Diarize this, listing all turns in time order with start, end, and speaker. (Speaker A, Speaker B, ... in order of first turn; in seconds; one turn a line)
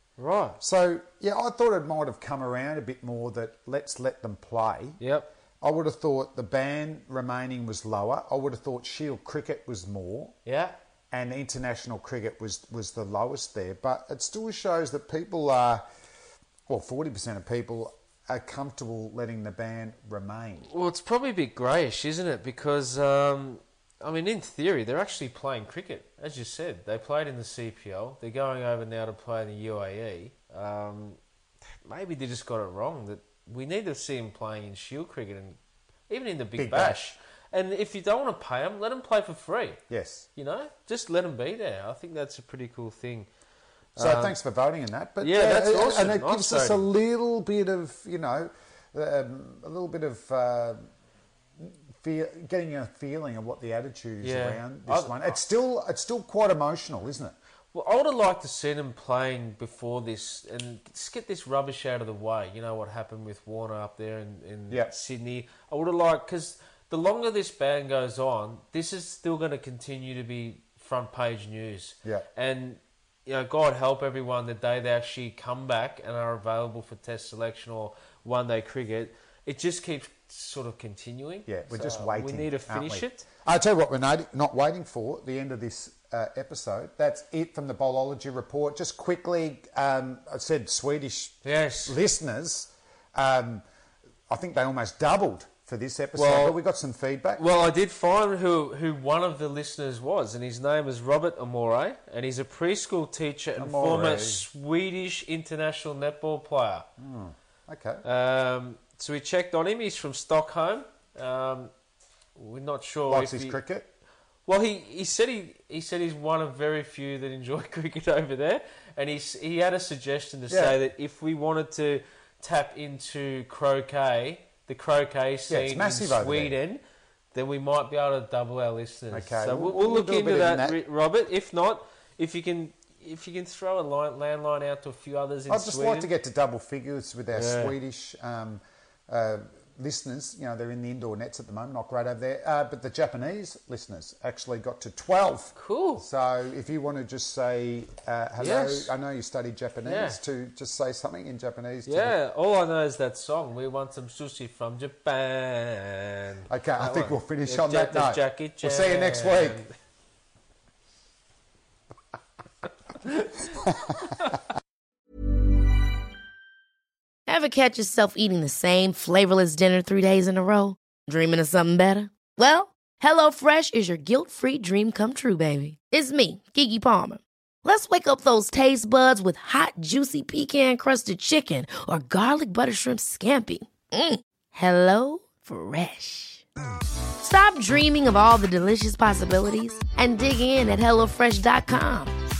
Speaker A: 0.2-0.6
Speaker B: 0.6-5.0
Speaker A: 5.0-5.3
Speaker B: 5.6-10.3
Speaker A: 10.4-10.7
Speaker B: 11.1-15.8
Speaker B: 16.7-20.7
Speaker A: 20.7-31.2
Speaker A: 31.8-35.6
Speaker A: 36.1-39.8
Speaker B: 36.5-37.0
Speaker B: 39.9-40.3
Speaker A: 40.4-43.3
Speaker A: 43.9-44.4
Speaker B: 44.0-50.8
Speaker A: 45.2-46.9
Speaker B: 51.6-57.3
Speaker A: 54.2-55.3
Speaker A: 57.7-83.3
Speaker B: 81.5-93.6
Speaker A: 91.4-92.0
Speaker B: 94.3-97.4
Speaker A: 96.1-96.6
Speaker A: 97.3-106.9
Speaker B: 103.6-104.4
Speaker B: 107.0-108.0
Speaker A: 108.0-111.7
Speaker A: 112.3-113.6
Speaker B: 113.1-113.9
Speaker A: 114.5-126.8
Speaker B: 120.5-120.8
Speaker B: 125.5-126.5
Speaker A: 127.3-136.1
Speaker B: 129.1-130.8
Speaker B: 135.5-152.1
Speaker A: 137.3-137.7
Speaker A: 145.6-146.0
Speaker A: 148.4-148.9
Speaker A: 149.8-150.2
Speaker A: 151.9-159.7
Speaker B: 156.5-159.6
Speaker A: 163.0-163.5
Speaker B: 163.7-164.1
Speaker C: 167.3-186.4
Speaker C: 187.2-192.1